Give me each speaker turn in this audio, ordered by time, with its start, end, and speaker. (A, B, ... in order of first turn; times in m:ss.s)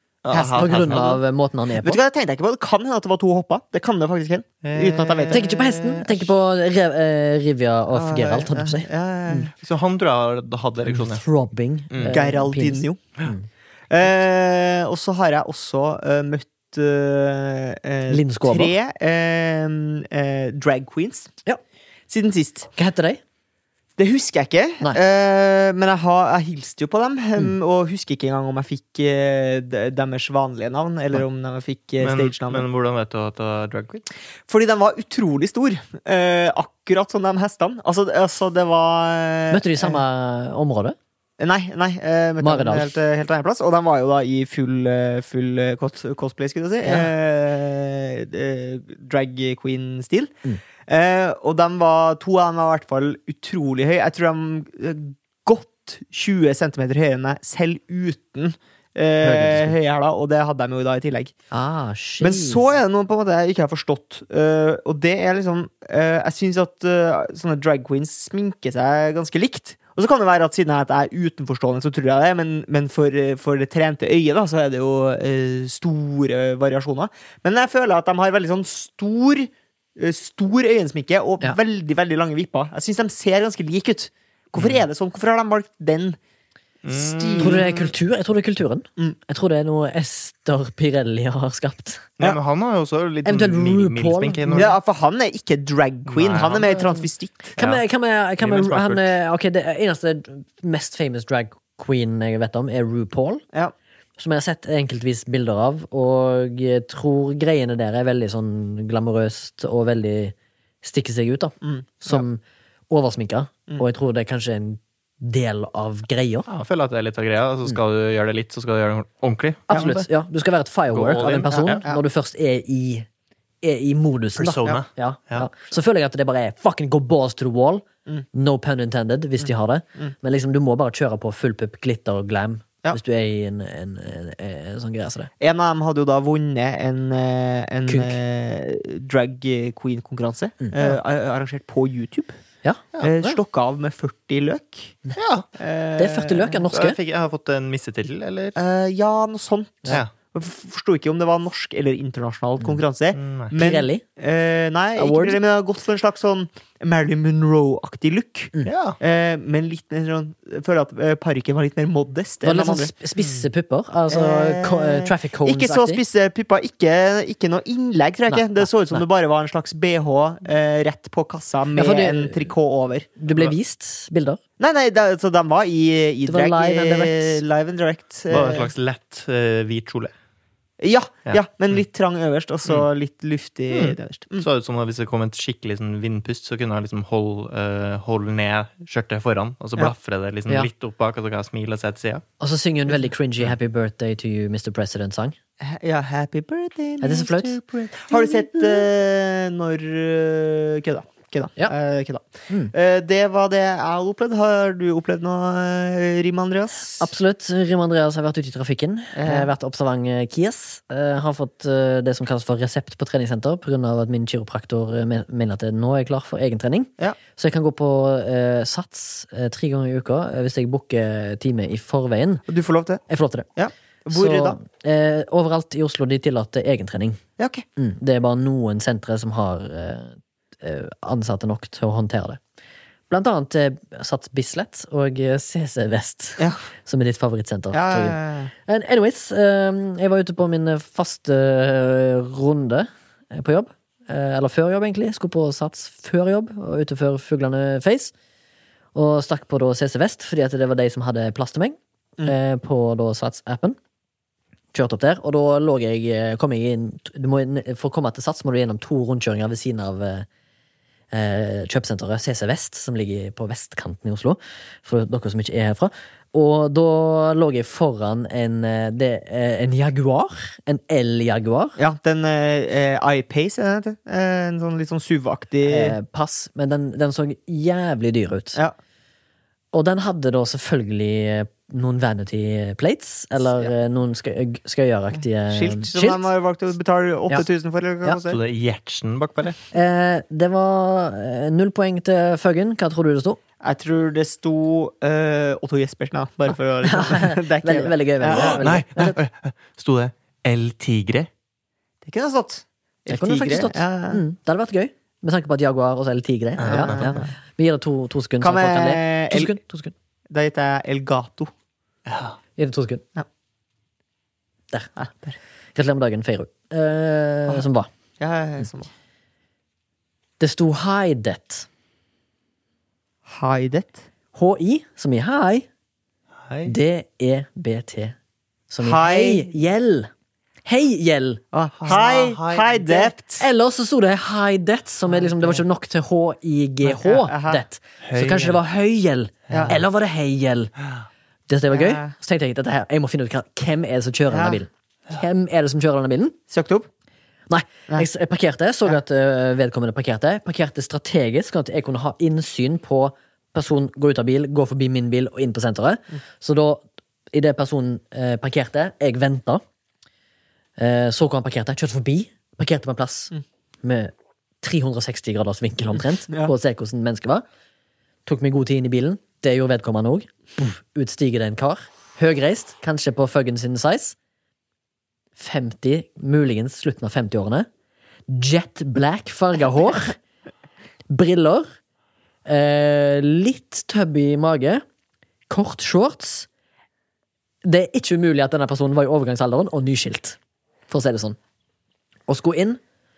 0:00.2-0:01.2 A
0:00.3-0:01.2 B
0:00.5-0:02.0 C
0:01.8-0:05.5 B
0:04.6-0:06.3 A
0:05.3-0:09.5 C
0:07.9-0:09.5 B
0:09.5-0:11.2 A
0:10.8-0:13.5 C
0:11.9-0:12.2 A
0:12.1-0:13.0 B
0:13.9-0:21.3 B
0:18.1-0:18.7 C
0:22.1-0:22.7 B
0:22.8-0:23.2 C
0:24.0-0:32.6 B
0:32.0-0:34.0 A
0:34.5-0:40.0 B
0:39.5-0:41.0 C
0:41.4-0:50.3 B
0:42.4-0:43.0 C
0:46.8-0:47.1 C
0:50.9-1:01.3 B
0:59.2-0:59.7 C
1:01.5-1:02.6 C
1:02.2-1:26.2 B
1:24.6-1:24.8 A
1:26.8-1:27.9 A
1:26.9-1:27.7 B
1:27.4-1:32.1 C
1:32.2-1:34.8 A
1:33.2-1:34.7 C
1:34.5-1:37.5 B
1:36.1-1:36.8 A
1:37.6-1:37.8 A
1:37.6-1:43.4 C
1:38.4-1:39.1 A
1:44.2-1:56.5 C
1:51.6-1:52.2 B
1:56.5-2:00.0 A
1:59.7-1:59.9 B
1:59.7-2:03.1 C
2:00.9-2:01.8 A
2:01.5-2:02.0 B
2:03.6-2:15.3 C
2:04.4-2:05.5 A
2:09.4-2:10.1 B
2:15.4-2:22.4 B
2:17.9-2:18.2 C
2:20.6-2:21.0 C
2:22.6-2:23.4 C
2:23.0-2:25.0 B
2:25.1-2:25.4 A
2:25.6-2:26.7 B
2:26.0-2:27.0 C
2:26.7-2:28.6 A
2:28.6-2:42.9 B
2:33.1-2:33.5 A
2:33.5-2:34.0 C
2:35.0-2:35.4 C
2:38.6-2:39.0 A
2:42.4-2:46.0 C
2:43.2-2:43.4 A
2:44.1-2:53.1 B
2:48.3-2:49.0 C
2:51.7-2:52.5 C
2:53.2-2:54.4 C
2:54.6-2:58.7 B
2:56.2-2:57.4 C
2:58.3-3:00.1 A
3:00.8-3:04.5 B
3:03.7-3:12.2 A
3:12.4-3:15.4 C
3:15.6-3:27.1 B
3:17.0-3:17.6 C
3:18.1-3:18.8 C
3:27.0-3:42.4 C
3:29.2-3:29.5 B
3:42.5-3:43.0 B
3:43.1-3:43.5 C
3:43.6-3:44.6 B
3:44.1-3:47.2 C
3:47.4-3:47.6 B
3:47.8-3:52.4 C
3:53.1-4:08.1 C
3:57.7-3:58.5 B
4:08.9-4:13.8 C
4:14.7-4:20.3 C
4:21.1-4:31.8 C
4:31.8-4:36.0 B
4:35.6-4:38.6 C
4:39.7-4:46.3 C
4:43.4-4:43.7 B
4:45.5-4:48.4 B
4:48.1-4:49.6 A
4:49.7-4:53.4 C
4:53.6-4:58.7 B
4:56.8-4:59.2 C
4:58.3-5:01.3 A
5:02.0-5:04.2 B
5:03.1-5:09.9 C
5:06.6-5:07.2 A
5:06.6-5:07.3 B
5:08.4-5:09.5 B
5:10.3-5:11.5 B
5:12.0-5:12.4 A
5:12.6-5:13.0 C
5:15.0-5:15.4 B
5:15.7-5:17.9 C
5:18.2-5:18.9 B
5:20.4-5:21.7 C
5:23.3-5:24.0 B
5:24.3-5:25.7 C
5:26.5-5:26.7 A
5:26.6-5:28.2 C
5:28.7-5:30.1 C
5:28.8-5:29.5 B
5:30.6-5:31.4 C
5:31.5-5:33.4 B
5:31.8-5:33.1 A
5:33.4-5:40.7 C
5:35.1-5:35.6 B
5:36.8-5:37.6 B
5:38.0-5:38.6 A
5:39.5-5:39.8 A
5:39.5-5:39.8 B
5:41.5-5:46.4 C
5:41.7-5:42.1 B
5:44.3-5:44.6 B
5:46.5-5:46.9 B
5:47.5-5:59.6 C
6:00.8-6:07.4 C
6:08.2-6:14.2 C
6:15.4-6:17.7 C
6:18.3-6:20.2 C
6:21.1-6:21.7 C
6:22.4-6:24.8 C
6:25.5-6:26.5 C
6:27.6-6:30.4 C
6:30.9-6:31.4 C
6:32.3-6:32.8 C